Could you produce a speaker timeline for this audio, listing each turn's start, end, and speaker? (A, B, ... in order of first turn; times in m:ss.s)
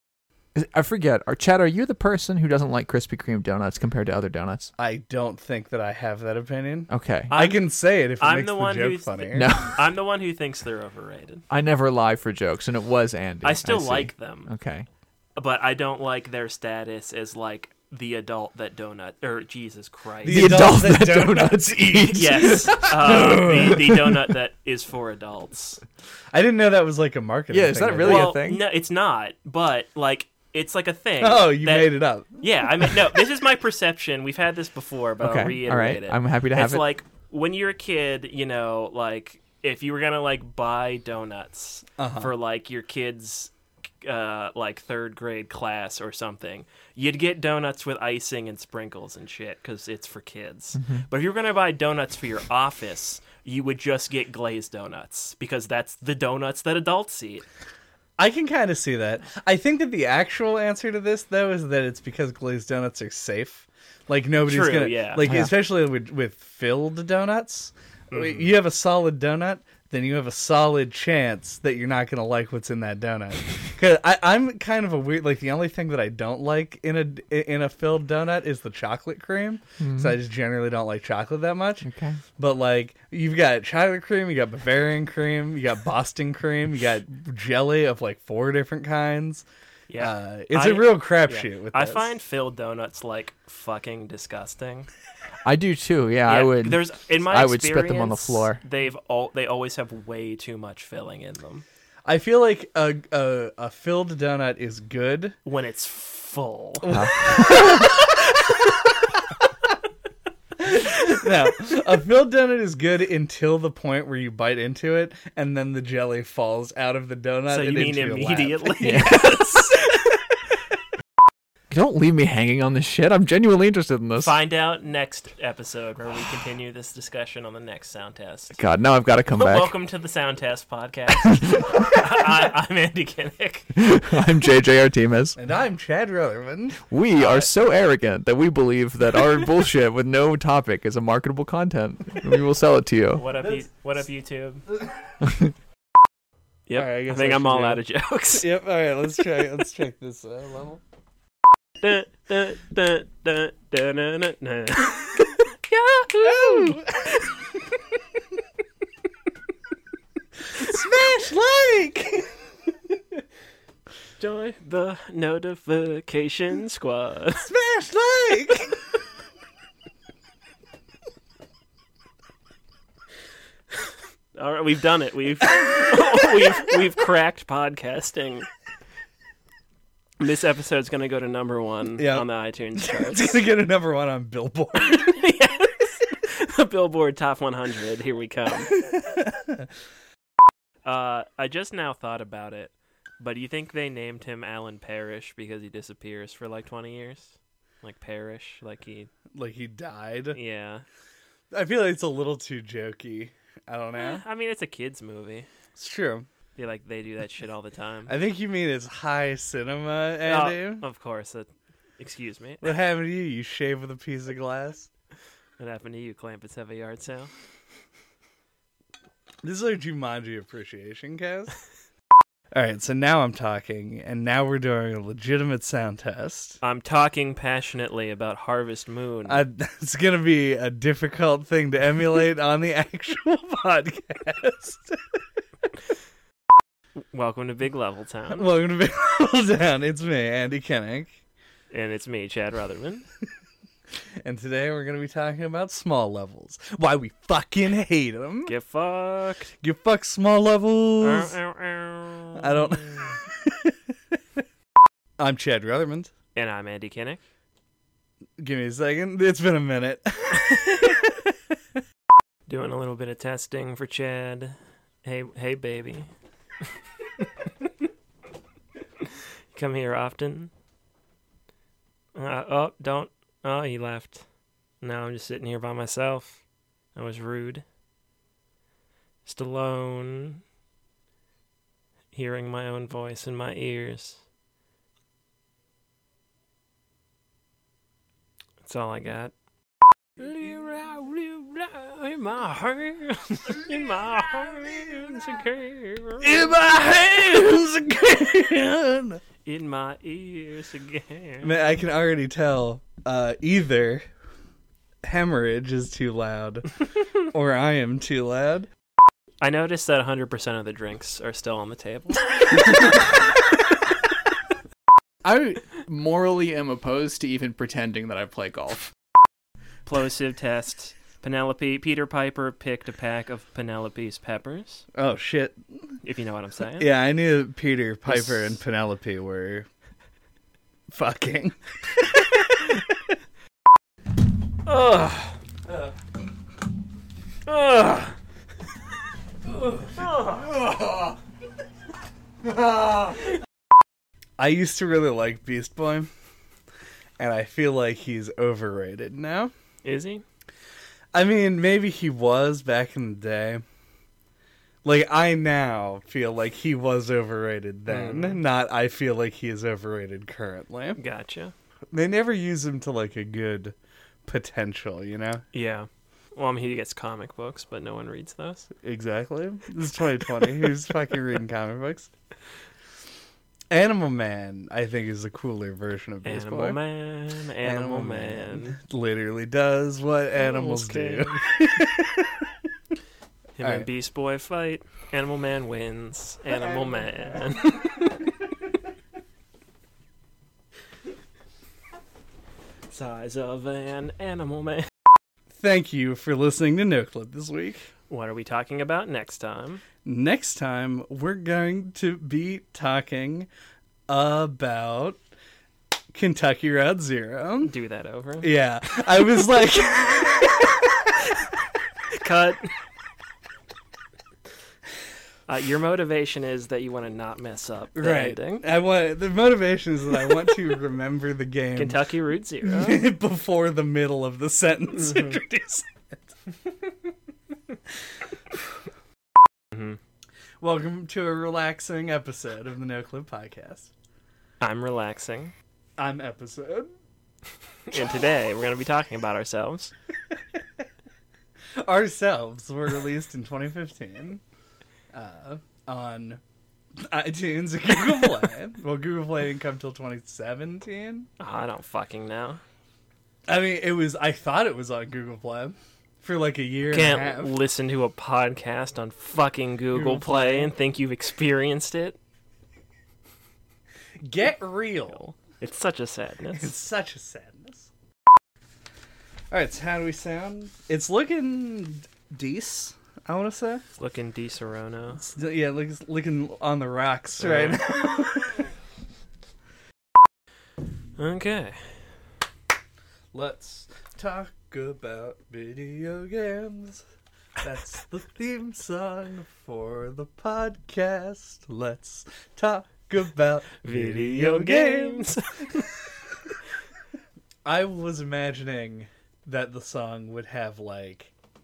0:00.5-0:04.7 A
0:04.8-0:09.6 B
0:06.9-0:07.3 A
0:07.3-0:11.4 C
0:09.3-0:09.8 A
0:11.5-0:14.9 A
0:13.4-0:14.5 C
0:15.4-0:20.5 C
0:20.2-0:23.9 B
0:20.2-0:24.0 A
0:22.1-0:25.8 C
0:26.3-0:28.4 B
0:27.5-0:28.6 A
0:28.0-0:43.5 C
0:31.2-0:33.0 B
0:35.2-0:36.9 A
0:42.0-0:42.3 B
0:44.0-0:57.4 C
0:50.7-0:51.0 A
0:58.2-1:29.4 B
1:04.4-1:05.3 C
1:05.2-1:05.5 A
1:08.1-1:08.5 C
1:19.8-1:20.1 A
1:21.8-1:22.2 A
1:29.9-1:34.9 C
1:30.0-1:32.1 B
1:35.4-1:38.6 A
1:36.2-1:41.6 C
1:42.0-1:45.4 B
1:45.4-1:47.5 C
1:46.8-1:48.2 B
1:46.9-1:47.8 A
1:50.6-1:59.5 B
1:57.5-2:00.0 C
1:58.8-1:59.4 A
2:01.7-2:04.4 A
2:04.2-2:08.6 C
2:08.6-2:09.7 A
2:09.4-2:13.7 C
2:13.7-2:15.4 A
2:15.4-2:16.8 B
2:16.9-2:23.2 A
2:17.1-2:17.5 C
2:23.1-2:24.6 C
2:23.4-2:24.0 B
2:24.7-2:25.2 B
2:26.7-2:28.4 C
2:26.7-2:30.8 B
2:31.8-2:37.2 C
2:36.2-2:37.2 B
2:40.5-2:42.4 B
2:44.2-2:47.5 C
2:47.4-2:48.8 B
2:54.3-2:58.5 C
3:00.2-3:03.4 C
3:02.0-3:05.2 B
3:04.8-3:08.8 C
3:08.7-3:09.6 B
3:10.8-3:19.1 C
3:19.3-3:20.4 B
3:20.3-3:20.8 C
3:21.5-3:24.2 B
3:24.0-3:25.5 C
3:25.8-3:26.3 B
3:26.6-3:28.1 C
3:28.1-3:30.8 B
3:30.2-3:32.7 C
3:32.6-3:34.9 B
3:35.6-3:37.3 C
3:39.4-3:41.6 B
3:42.5-3:46.6 B
3:46.6-3:49.4 C
3:49.2-3:55.2 B
3:57.1-3:58.5 C
3:58.3-4:01.1 B
4:01.7-4:03.0 C
4:04.2-4:08.5 B
4:08.4-4:09.5 C
4:09.6-4:11.3 B
4:11.0-4:13.1 C
4:12.3-4:13.2 B
4:15.2-4:16.1 B
4:16.4-4:17.2 C
4:18.4-4:20.9 B
4:20.5-4:21.0 C
4:22.5-4:26.1 C
4:27.2-4:27.4 C
4:29.0-4:30.5 C
4:32.1-4:34.2 C
4:34.8-4:36.4 C
4:36.9-4:37.6 C
4:39.2-4:40.4 C
4:42.1-4:44.2 C
4:48.6-4:49.3 C
4:50.2-4:56.6 C
4:56.2-4:59.2 B
4:59.4-5:01.5 C
5:01.4-5:04.0 B
5:05.0-5:08.7 B
5:09.4-5:13.1 C
5:12.6-5:13.0 B
5:15.2-5:18.9 A
5:19.8-5:24.8 C
5:24.9-5:26.0 B
5:26.0-5:26.9 C
5:26.8-5:29.7 B
5:28.0-5:28.6 C
5:30.9-5:31.6 B
5:32.2-5:32.8 B
5:34.6-5:35.4 C
5:37.5-5:38.2 C
5:39.6-5:41.1 B
5:39.9-5:40.6 C
5:42.4-5:43.2 B
5:44.4-5:46.1 B
5:47.2-5:49.5 B
5:49.8-5:50.2 C
5:51.1-5:53.6 B
5:54.8-6:01.0 B
5:57.9-5:58.4 C
6:01.0-6:01.5 C
6:01.9-6:05.4 B
6:05.5-6:08.7 C
6:08.8-6:12.1 B
6:13.7-6:16.8 B
6:16.2-6:18.8 C
6:17.6-6:22.4 B
6:20.3-6:21.4 C
6:23.6-6:28.3 C
6:23.6-6:23.9 B
6:32.9-6:34.9 C
6:35.6-6:37.9 B
6:38.1-6:39.8 C
6:40.0-6:43.5 B
6:44.1-6:45.2 B
6:46.1-6:47.7 B
6:47.6-6:48.5 C
6:48.4-6:50.8 B
6:52.1-6:52.7 C
6:55.5-6:58.6 C
6:57.9-7:02.0 B
7:01.8-7:03.1 C
7:02.6-7:06.3 B
7:04.9-7:05.4 C
7:09.7-7:10.0 C
7:10.6-7:13.9 B
7:14.6-7:15.5 C
7:16.0-7:16.9 B
7:17.9-7:19.9 C
7:21.8-7:24.4 B
7:25.1-7:26.4 B
7:27.1-7:31.3 B
7:31.4-7:32.6 C
7:33.5-7:37.5 B
7:36.9-7:42.2 C
7:39.9-7:40.7 B
7:44.2-7:45.3 B
7:45.1-7:46.7 C
7:46.5-7:47.9 B
7:49.5-7:53.8 B
7:53.9-7:55.2 C
7:55.1-7:58.6 B
7:57.4-7:58.3 C
8:01.2-8:02.0 C
8:03.3-8:07.0 B
8:07.6-8:15.3 B
8:13.8-8:15.9 C
8:17.6-8:21.3 B